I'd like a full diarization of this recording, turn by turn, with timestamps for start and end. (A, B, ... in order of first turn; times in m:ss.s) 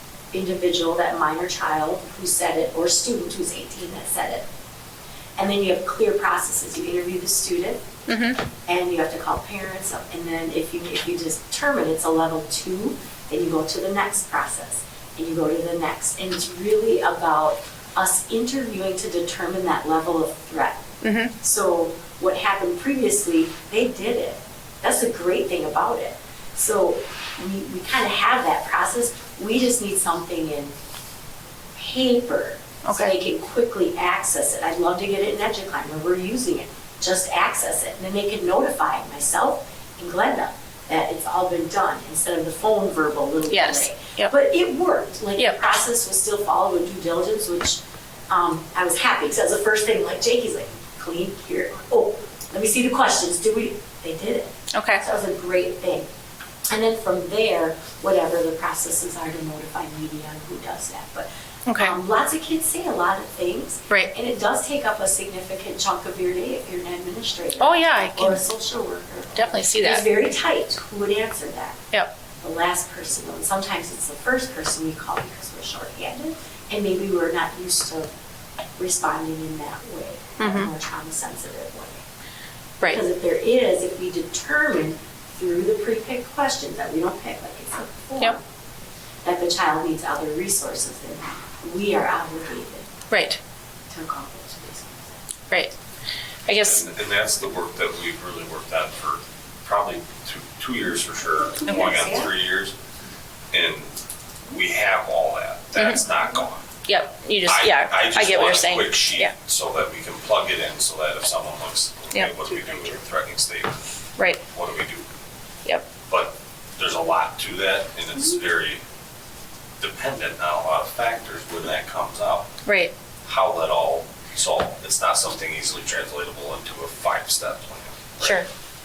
0:00.3-0:04.4 A
0:05.4-0:07.8 A
0:08.1-0:08.4 B
0:08.7-0:20.8 A
0:21.0-0:21.3 B
0:21.4-0:30.7 A
0:31.8-0:56.0 A
0:32.8-0:33.1 B
0:43.5-0:44.3 B
0:54.7-0:55.0 B
0:56.7-1:11.8 A
1:01.7-1:02.0 B
1:07.6-1:08.4 B
1:09.4-1:10.0 B
1:12.4-1:18.1 A
1:18.8-1:22.0 A
1:20.4-1:20.7 B
1:22.8-1:28.4 A
1:29.2-1:32.9 A
1:33.1-1:33.4 B
1:33.9-1:35.2 A
1:36.5-1:36.9 B
1:36.6-1:42.7 C
1:41.6-1:42.3 A
1:43.5-1:43.9 C
1:44.5-1:46.7 C
1:45.8-1:46.0 B
1:46.8-1:49.3 B
1:47.4-1:53.7 C
1:54.5-1:55.0 C
1:56.1-1:58.8 C
1:59.8-2:02.5 C
2:02.6-2:02.9 B
2:03.2-2:08.2 C
2:08.2-2:08.5 B